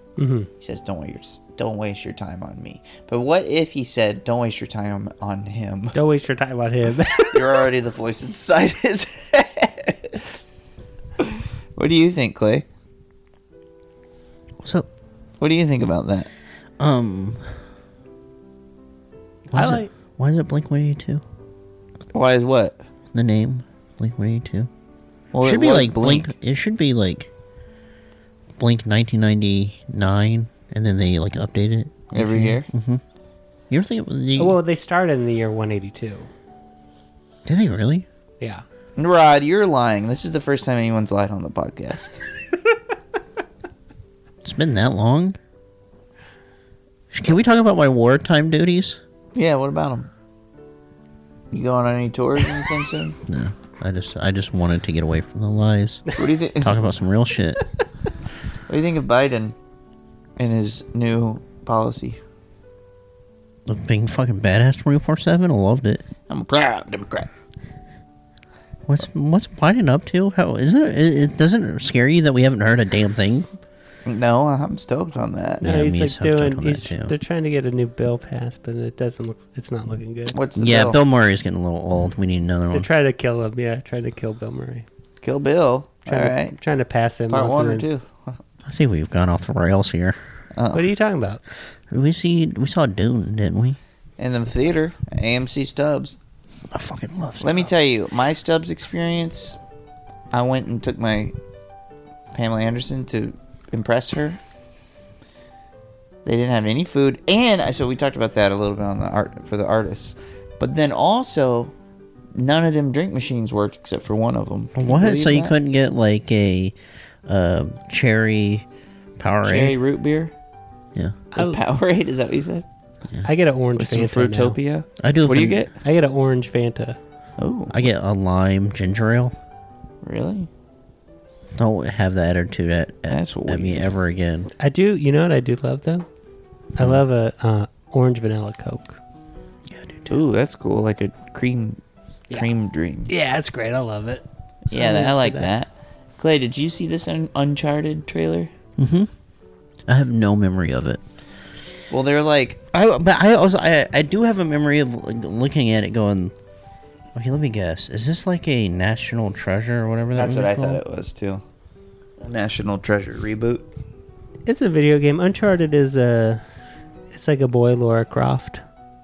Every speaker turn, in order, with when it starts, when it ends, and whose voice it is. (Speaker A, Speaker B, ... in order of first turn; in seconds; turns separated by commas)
Speaker A: 0.2-0.5, Speaker B: 0.6-6.0, Speaker A: 5.9-7.6, Speaker B: 7.3-10.2, Speaker B: 11.2-12.7, Speaker C: 14.6-14.9, Speaker B: 15.4-16.3, Speaker C: 16.8-17.5, Speaker C: 19.5-21.2, Speaker A: 19.5-19.9, Speaker B: 22.1-22.8, Speaker C: 23.1-24.7, Speaker B: 25.3-26.3, Speaker C: 25.4-27.3, Speaker C: 28.6-33.0, Speaker B: 32.1-32.7, Speaker C: 33.7-34.6, Speaker A: 34.4-36.3, Speaker C: 37.5-38.0, Speaker B: 39.0-42.2, Speaker C: 44.4-45.4, Speaker C: 47.1-49.0, Speaker B: 49.3-50.1, Speaker B: 51.5-53.2, Speaker C: 53.3-57.6, Speaker B: 56.1-56.8, Speaker B: 58.7-59.5, Speaker B: 60.4-62.2, Speaker C: 63.7-66.0, Speaker B: 66.3-67.3, Speaker C: 68.9-73.5, Speaker B: 74.0-75.6, Speaker A: 75.6-80.4, Speaker C: 75.6-77.1, Speaker B: 80.3-81.0, Speaker C: 80.5-82.9, Speaker A: 82.7-84.8, Speaker B: 85.2-86.5, Speaker A: 86.0-87.8, Speaker B: 87.3-88.4, Speaker C: 88.7-90.2, Speaker B: 90.5-90.9, Speaker A: 90.7-91.4, Speaker C: 91.9-93.8, Speaker B: 94.2-96.2, Speaker C: 96.7-97.7, Speaker B: 97.4-99.6, Speaker B: 100.3-101.3, Speaker B: 102.3-104.4, Speaker B: 106.2-111.7, Speaker B: 112.3-115.5, Speaker C: 114.7-116.7, Speaker C: 117.3-118.7, Speaker C: 119.2-119.8, Speaker B: 119.4-120.3, Speaker A: 121.3-121.6, Speaker B: 121.3-122.7, Speaker A: 123.2-124.6, Speaker B: 123.8-125.7, Speaker C: 125.0-125.7, Speaker A: 125.8-127.0, Speaker B: 127.4-127.9, Speaker C: 127.7-129.3, Speaker B: 130.0-130.5, Speaker C: 131.5-134.5, Speaker B: 133.1-133.9, Speaker A: 134.6-136.1, Speaker A: 136.8-139.0, Speaker C: 139.7-140.1, Speaker B: 140.1-141.8, Speaker B: 142.3-143.1, Speaker A: 143.1-145.5, Speaker B: 144.7-148.5, Speaker C: 148.8-149.1, Speaker C: 149.9-151.0, Speaker B: 151.9-152.6, Speaker C: 152.7-156.3, Speaker C: 157.1-160.8, Speaker B: 160.1-161.4, Speaker B: 162.2-163.7, Speaker A: 164.4-166.4, Speaker A: 167.1-168.6